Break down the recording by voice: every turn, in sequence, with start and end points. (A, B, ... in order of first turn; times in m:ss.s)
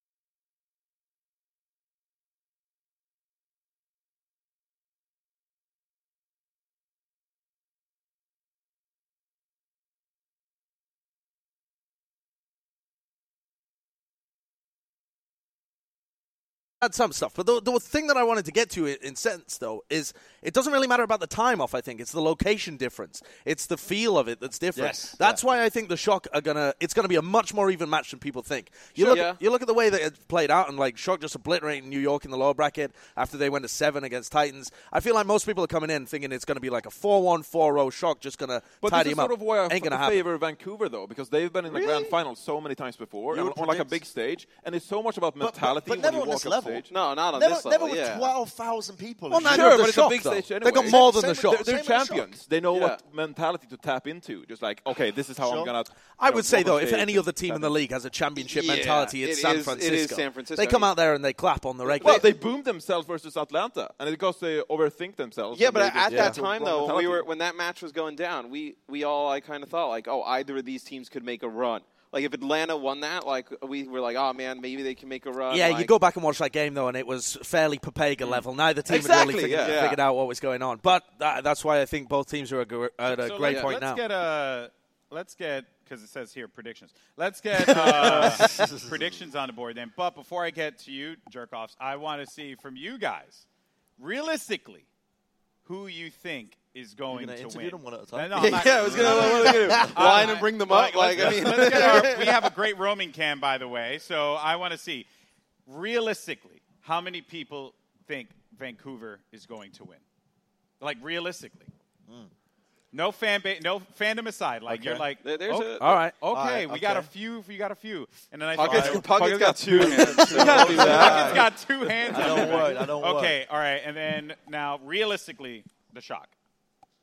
0:16.8-0:40.3 A
0:24.8-0:25.4 B
0:29.0-0:29.4 C
0:38.8-0:46.9 D
0:41.7-0:42.1 C
0:43.3-0:44.0 B
0:45.4-0:50.0 B
0:46.9-0:48.4 C
0:49.3-0:51.7 A
0:49.4-0:57.8 D
0:50.7-0:52.4 B
0:52.7-0:53.0 C
0:55.4-0:55.7 B
0:56.2-1:02.3 A
0:58.4-1:00.9 C
1:01.9-1:02.3 C
1:02.0-1:07.3 D
1:05.5-1:15.9 C
1:06.1-1:06.4 A
1:15.5-1:24.0 A
1:18.9-1:20.0 C
1:23.0-1:33.4 E
1:23.5-1:23.7 C
1:27.6-1:29.2 B
1:34.0-1:34.9 E
1:35.6-1:45.1 E
1:37.1-1:40.4 B
1:38.3-1:42.5 C
1:41.2-1:42.0 B
1:45.7-1:50.0 E
1:50.8-1:51.7 E
1:52.9-1:59.1 E
1:54.7-1:55.1 B
1:55.2-1:56.0 C
1:55.8-1:56.2 A
1:56.3-1:57.1 B
1:58.5-2:01.4 C
1:58.6-1:59.1 B
1:59.0-2:01.5 D
1:59.7-2:01.5 B
1:59.8-2:06.3 E
2:02.1-2:03.4 B